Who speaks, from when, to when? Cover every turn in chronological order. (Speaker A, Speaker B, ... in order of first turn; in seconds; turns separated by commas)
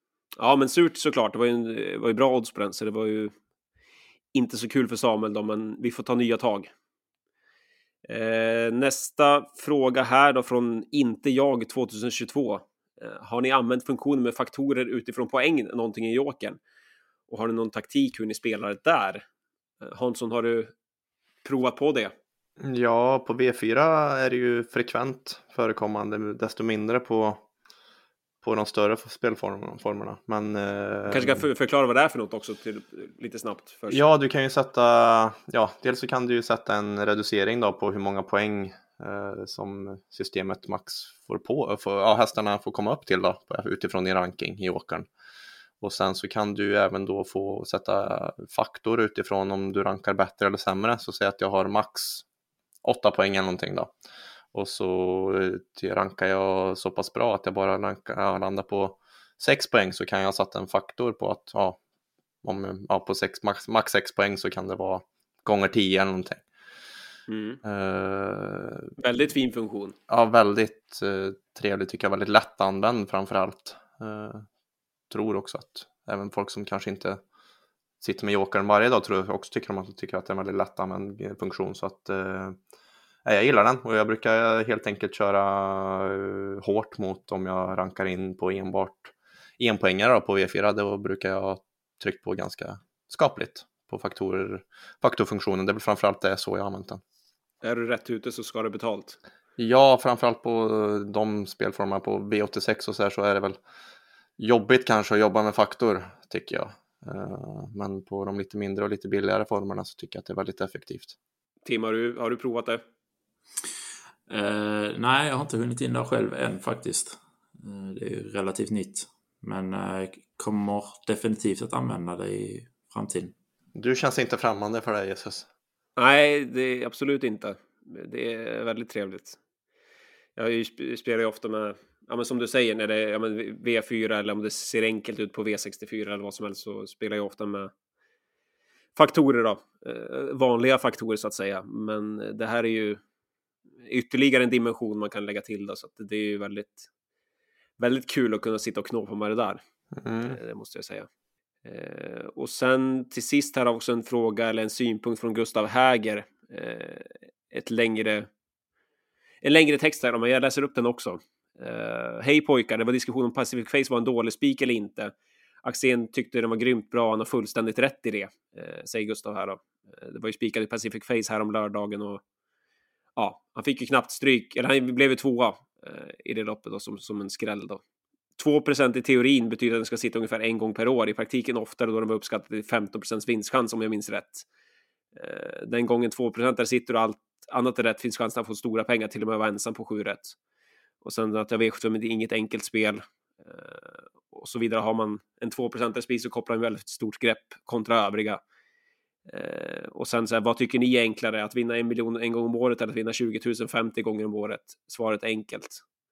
Speaker A: 0.4-3.3, Speaker A: 4.3-6.7, Speaker A: 8.1-16.6, Speaker A: 17.3-19.2, Speaker A: 19.8-20.7, Speaker A: 21.4-22.1, Speaker B: 22.6-27.4, Speaker B: 28.4-31.4, Speaker A: 31.1-34.0, Speaker B: 33.9-45.1, Speaker B: 45.8-52.2, Speaker B: 52.8-53.9, Speaker B: 54.5-61.8, Speaker B: 62.4-66.5, Speaker A: 67.3-67.6, Speaker B: 67.6-68.9, Speaker A: 69.0-70.0, Speaker B: 70.1-74.5, Speaker B: 75.1-77.2, Speaker B: 78.0-82.6, Speaker B: 83.2-97.0, Speaker A: 97.6-99.2, Speaker B: 99.6-103.6, Speaker B: 104.4-111.1, Speaker A: 111.6-112.8, Speaker C: 114.3-123.3, Speaker B: 123.7-125.5, Speaker A: 126.0-129.4, Speaker A: 130.3-137.7, Speaker A: 138.9-143.0, Speaker A: 143.8-146.9, Speaker A: 147.8-149.6, Speaker B: 150.0-150.4, Speaker A: 150.2-151.1, Speaker A: 151.6-158.3, Speaker A: 159.4-172.2, Speaker A: 173.2-177.8, Speaker A: 178.4-184.4, Speaker A: 185.1-190.3, Speaker A: 191.0-198.4, Speaker A: 199.3-205.8